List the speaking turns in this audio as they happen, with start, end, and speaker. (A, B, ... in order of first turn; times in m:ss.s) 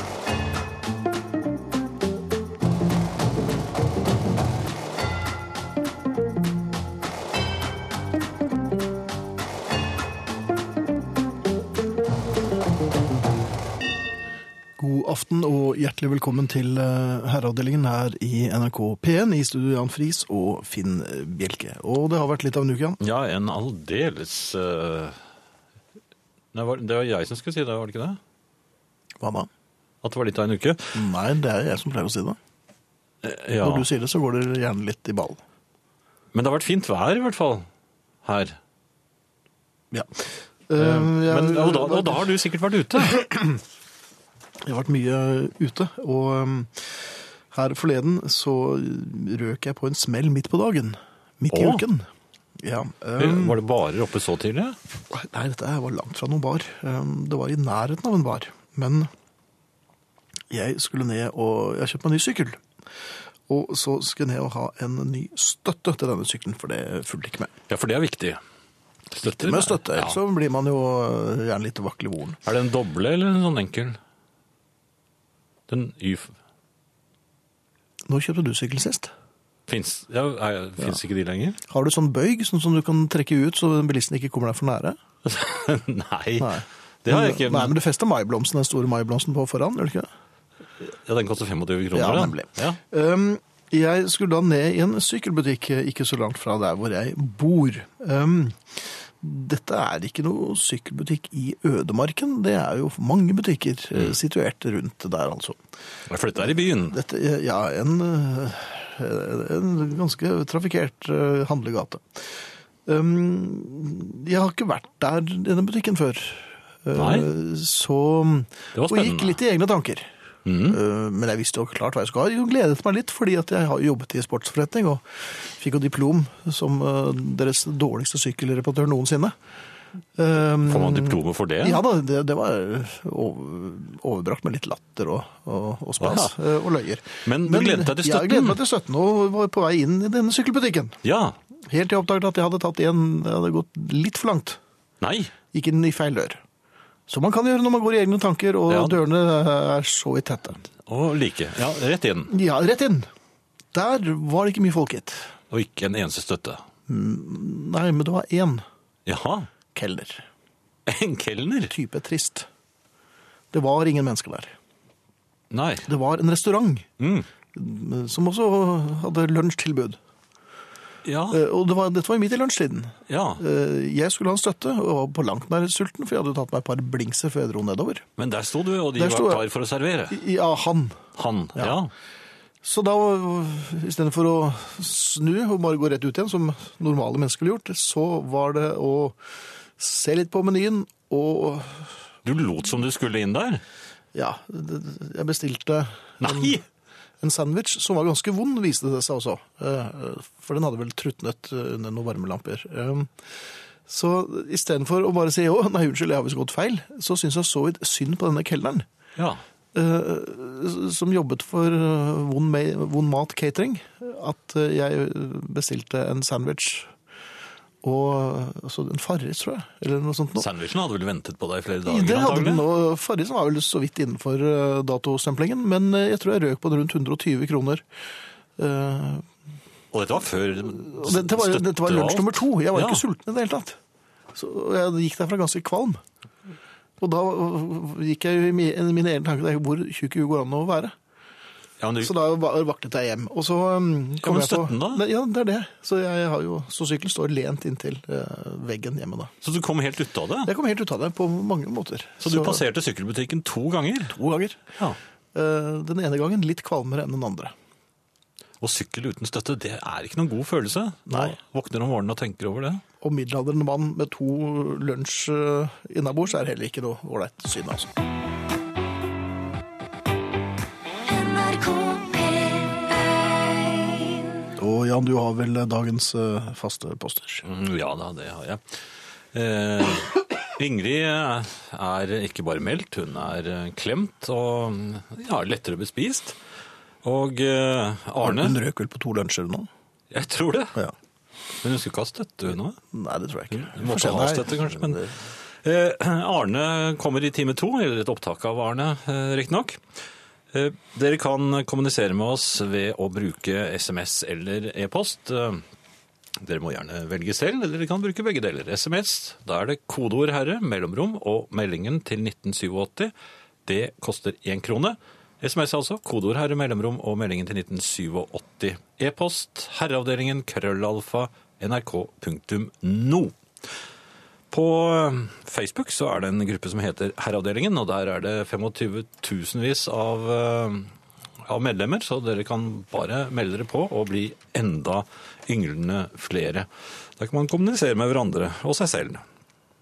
0:14.8-0:23.0 A
0:23.0-0:25.2 B
0:26.5-0:28.2 B
0:29.2-0:29.5 A
0:30.0-0:31.0 B
0:30.9-0:32.4 A
0:33.2-0:33.9 B
0:33.6-0:35.4 A
0:36.3-0:37.7 B
0:38.2-0:38.6 B
0:39.9-0:42.3 A
0:40.8-0:43.2 B
0:43.1-0:43.6 A
0:44.6-0:53.6 A
0:51.5-0:51.8 B
0:53.2-0:54.8 B
0:55.1-0:59.1 A
1:00.5-1:02.6 A
1:03.5-1:07.5 A
1:07.7-1:08.4 B
1:09.1-1:10.2 B
1:09.2-1:12.4 A
1:12.4-1:14.0 B
1:15.7-1:16.3 B
1:18.1-1:19.1 A
1:19.7-1:21.6 B
1:21.7-1:25.0 A
1:25.2-1:27.8 B
1:26.4-1:30.1 A
1:31.1-1:32.8 B
1:31.9-1:45.6 A
1:46.1-1:47.0 B
1:46.9-2:00.1 A
1:57.0-1:57.3 B
1:58.8-1:59.4 B
2:00.5-2:00.8 B
2:00.7-2:09.4 A
2:10.2-2:21.0 A
2:10.6-2:11.8 B
2:16.0-2:16.4 B
2:17.2-2:18.6 B
2:21.0-2:21.4 B
2:21.7-2:24.6 A
2:25.0-2:25.3 B
2:25.5-2:26.4 A
2:27.1-2:30.6 A
2:28.7-2:29.0 B
2:30.9-2:32.3 B
2:32.3-2:33.1 A
2:33.7-2:35.3 A
2:35.5-2:36.6 B
2:36.9-2:38.7 A
2:39.1-2:39.5 B
2:39.7-2:40.3 A
2:40.9-2:41.7 B
2:41.7-2:42.5 A
2:43.5-2:44.6 A
2:45.5-2:45.9 B
2:45.9-2:46.9 A
2:47.0-2:47.3 B
2:47.5-2:50.0 A
2:51.0-2:51.4 B
2:51.3-2:58.1 A
2:53.1-2:53.4 B
2:58.2-3:00.2 B
2:59.0-2:59.4 A
3:00.1-3:01.0 A
3:01.2-3:01.9 B
3:02.6-3:09.2 A
3:09.8-3:12.0 A
3:12.2-3:13.6 B
3:14.1-3:16.6 A
3:16.2-3:16.6 B
3:17.2-3:23.1 A
3:23.9-3:28.9 A
3:29.7-3:36.9 A
3:37.8-3:40.5 A
3:40.4-3:42.6 B
3:41.8-3:47.8 A
3:48.6-3:49.3 A
3:49.9-3:53.0 B
3:50.7-3:53.8 A
3:54.3-3:56.0 A
3:57.0-4:01.0 A
4:01.8-4:02.1 B
4:02.0-4:09.3 A
4:04.2-4:05.0 B
4:09.4-4:10.5 B
4:10.5-4:12.6 A
4:12.2-4:14.2 B
4:14.1-4:14.6 A
4:15.3-4:17.5 A
4:18.6-4:22.8 B
4:21.1-4:21.3 A
4:23.0-4:27.9 A
4:34.6-4:37.5 A
4:37.5-4:38.6 B
4:39.3-4:46.4 B
4:47.0-4:48.6 B
4:48.2-4:49.7 A
4:50.1-4:50.8 B
4:51.6-4:52.8 B
4:52.9-4:55.2 A
4:53.5-4:55.1 B
4:55.6-4:59.8 B
5:00.5-5:05.6 B
5:06.4-5:13.1 B
5:13.7-5:23.4 B
5:24.5-5:30.9 B
5:31.5-5:39.2 B